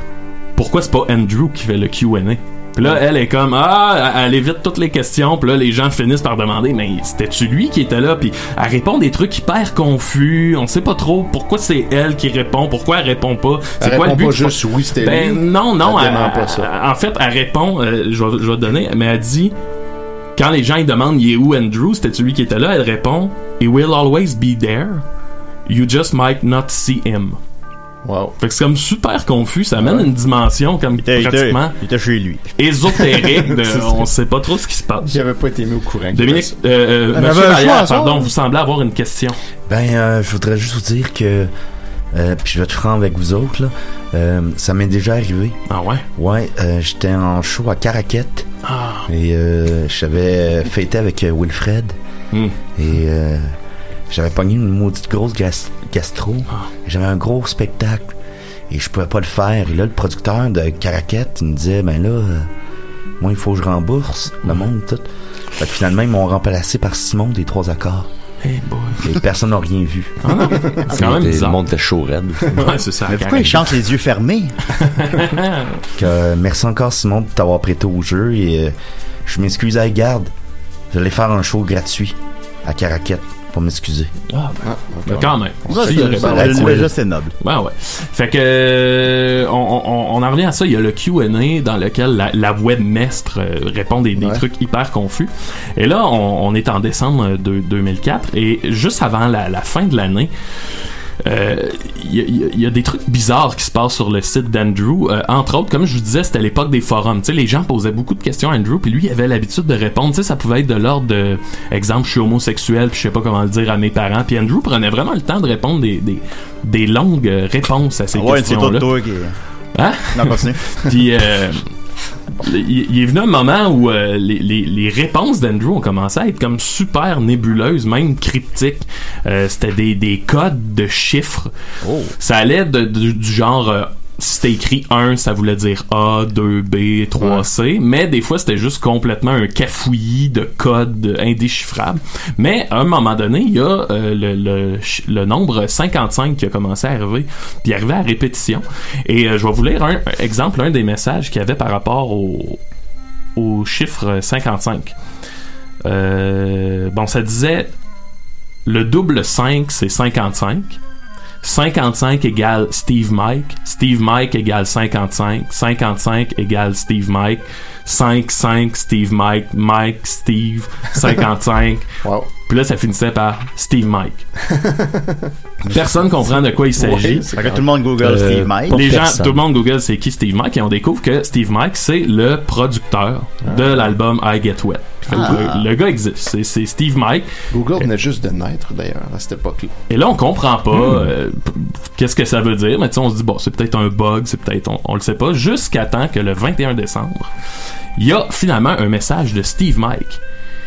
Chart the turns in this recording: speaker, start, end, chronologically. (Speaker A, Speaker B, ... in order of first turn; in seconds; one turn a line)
Speaker A: 0.6-19.5
Speaker B: 13.8-16.7
Speaker A: 20.4-25.0
Speaker A: 25.7-27.4
Speaker B: 28.1-28.4
Speaker A: 28.4-31.7
Speaker B: 29.8-30.1
Speaker C: 31.0-32.4
Speaker A: 32.6-35.2
Speaker B: 33.2-34.0
Speaker B: 35.0-36.5
Speaker A: 36.1-39.4
Speaker C: 37.1-38.3
Speaker D: 39.7-41.5
Speaker D: 42.1-45.6
Speaker A: 45.7-46.0
Speaker D: 46.2-48.5
Speaker A: 48.6-49.1
Speaker D: 49.1-52.0
Speaker A: 52.3-52.6
Speaker D: 52.8-53.5
Speaker D: 54.1-58.1
Speaker D: 58.7-62.5
Speaker D: 63.2-68.1
Speaker A: 68.4-69.1
Speaker D: 69.0-70.5
Speaker A: 70.2-71.6
Speaker E: 70.9-72.7
Speaker A: 72.5-73.7
Speaker C: 73.1-74.6
Speaker A: 74.8-75.8
Speaker D: 76.0-78.8
Speaker D: 79.3-80.3
Speaker D: 80.9-84.1
Speaker A: 84.3-100.3
Speaker B: 84.6-86.9
Speaker C: 85.7-87.3
Speaker B: 94.2-94.4
Speaker A: 101.2-118.9
Speaker C: 118.2-119.3
Speaker A: 119.8-121.7
Speaker C: 120.1-120.6
Speaker A: 122.4-131.5
Speaker C: 131.8-132.1
Speaker A: 132.2-152.6
Speaker A: 153.4-154.9
Speaker A: 155.8-157.7
Speaker A: 158.7-160.8
Speaker A: 161.4-171.8
Speaker A: 172.4-174.3
Speaker B: 174.4-175.8
Speaker A: 175.7-177.3
Speaker B: 176.8-177.7
Speaker C: 177.3-178.8
Speaker E: 178.0-179.4
Speaker A: 178.7-187.3
Speaker B: 183.4-183.9
Speaker C: 185.1-185.6
Speaker B: 187.5-189.7
Speaker A: 189.9-197.3
Speaker A: 198.0-200.2